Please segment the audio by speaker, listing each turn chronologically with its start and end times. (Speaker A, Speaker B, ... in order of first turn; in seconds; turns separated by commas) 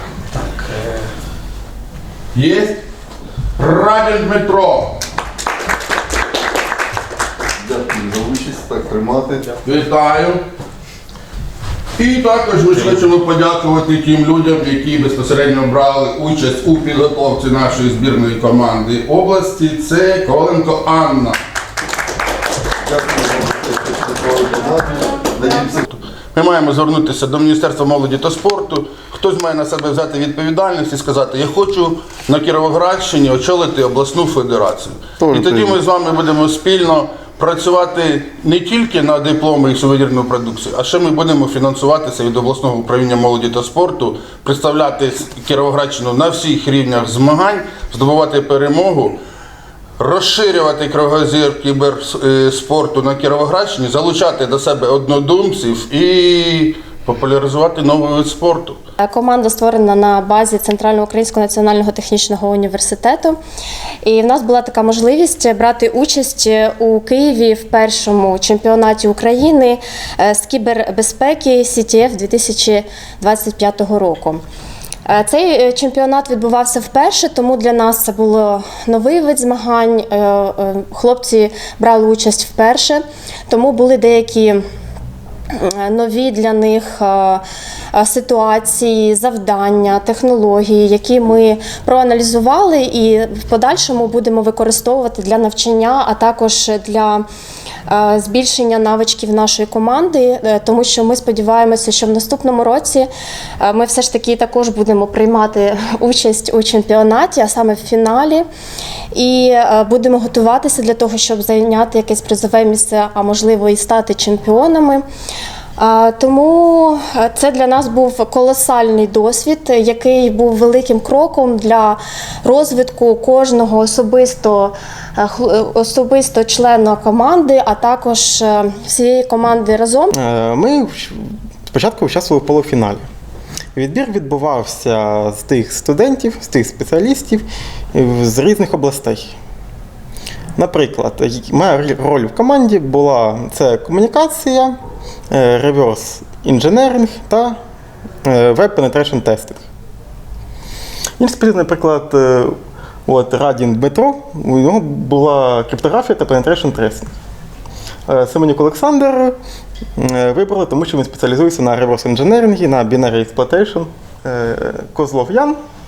Speaker A: 0.4-0.9, Speaker B: 2.3-2.8, Speaker B: 3.6-5.0, Speaker C: 7.6-9.5, Speaker B: 9.6-10.4, Speaker B: 12.0-21.4, Speaker C: 22.8-25.8, Speaker B: 26.3-49.2, Speaker B: 50.0-58.8, Speaker D: 59.0-63.4, Speaker D: 64.0-74.4, Speaker D: 75.1-84.6, Speaker D: 85.5-87.4, Speaker D: 87.9-97.2, Speaker D: 97.9-103.1, Speaker D: 103.6-108.5, Speaker D: 109.1-115.0, Speaker D: 115.8-130.1, Speaker A: 130.1-133.0, Speaker A: 133.8-139.3, Speaker A: 140.6-144.8, Speaker A: 145.3-147.6, Speaker A: 148.2-149.6, Speaker A: 151.2-152.5, Speaker A: 153.1-157.1, Speaker A: 158.1-159.3, Speaker A: 159.9-165.6